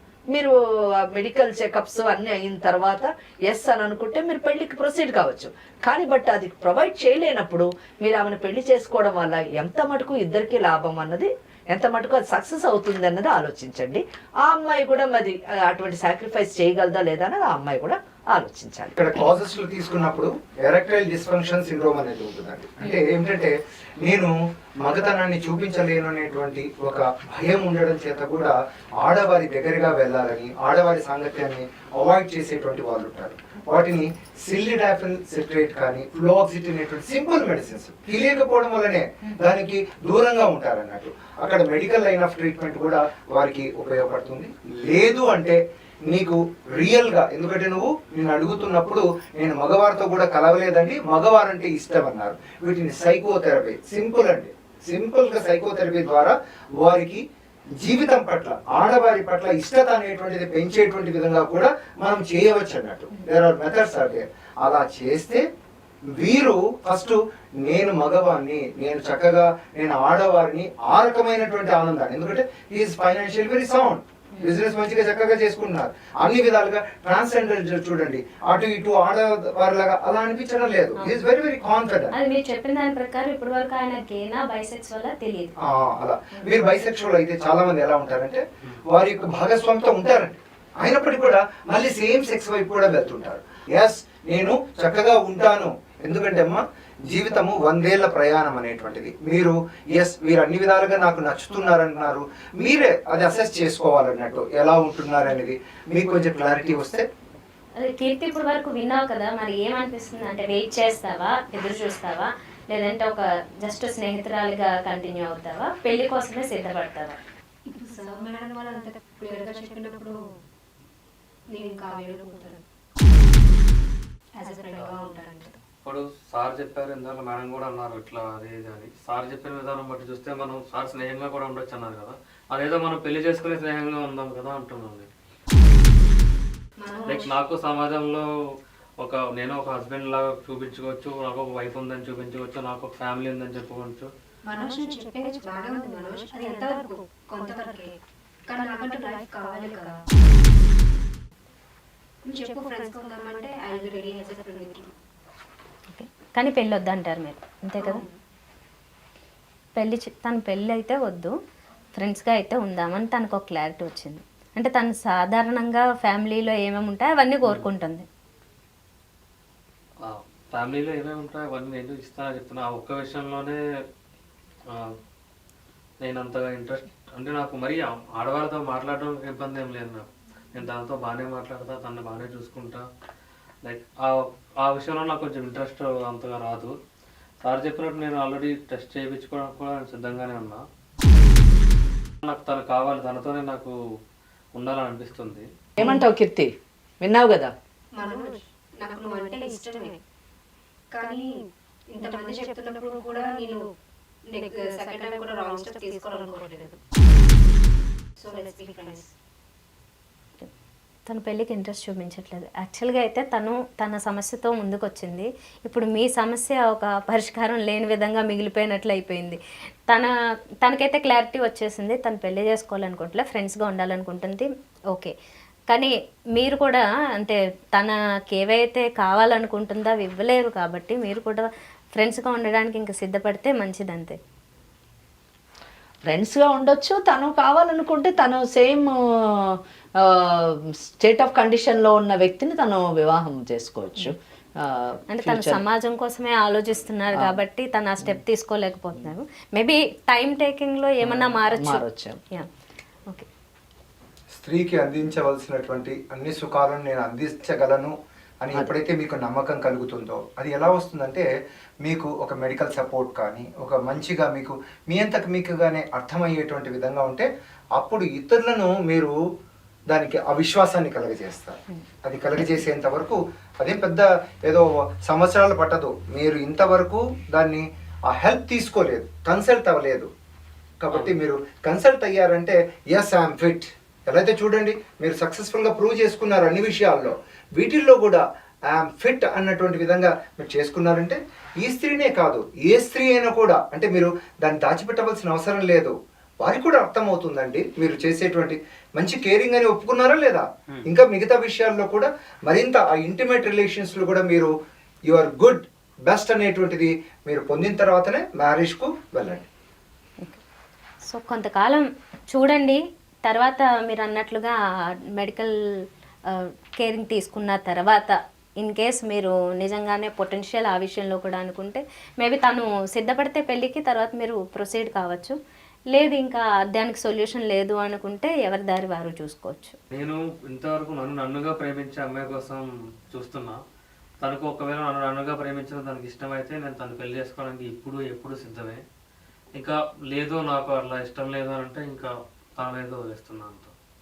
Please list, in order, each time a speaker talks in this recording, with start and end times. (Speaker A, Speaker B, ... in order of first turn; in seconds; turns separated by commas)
Speaker A: 0.3-18.9, Speaker B: 19.0-57.2, Speaker B: 57.8-65.4, Speaker B: 66.2-82.1, Speaker C: 82.1-85.5, Speaker B: 85.6-107.1, Speaker C: 107.8-117.2, Speaker D: 117.7-120.2, Speaker D: 121.5-122.6, Speaker D: 124.4-125.6, Speaker E: 124.8-125.2, Speaker E: 125.8-135.1, Speaker D: 136.8-137.4, Speaker E: 137.1-138.2, Speaker E: 139.0-144.1, Speaker D: 144.5-148.0, Speaker D: 148.5-149.9, Speaker D: 152.2-154.9, Speaker C: 155.9-158.1, Speaker D: 157.8-158.2, Speaker C: 159.8-161.3, Speaker C: 162.0-168.1, Speaker E: 170.0-173.6, Speaker E: 176.0-182.8, Speaker E: 183.7-186.7, Speaker E: 187.4-190.6, Speaker E: 192.2-193.7, Speaker E: 194.6-195.4, Speaker A: 195.8-197.5, Speaker D: 198.0-200.0, Speaker D: 200.9-203.6, Speaker D: 204.3-206.8, Speaker D: 208.2-209.1, Speaker C: 211.1-220.1, Speaker C: 220.6-225.1, Speaker C: 225.7-234.2, Speaker A: 236.1-245.6, Speaker C: 245.1-252.5, Speaker A: 251.0-252.2, Speaker B: 254.3-261.3, Speaker B: 261.8-267.3, Speaker B: 267.8-269.1, Speaker B: 269.9-280.1, Speaker B: 280.8-304.5, Speaker B: 305.1-309.5, Speaker C: 311.1-314.6, Speaker C: 315.1-315.5, Speaker C: 316.3-325.4, Speaker C: 325.9-329.8, Speaker E: 329.9-333.6, Speaker E: 334.2-338.8, Speaker E: 339.6-343.7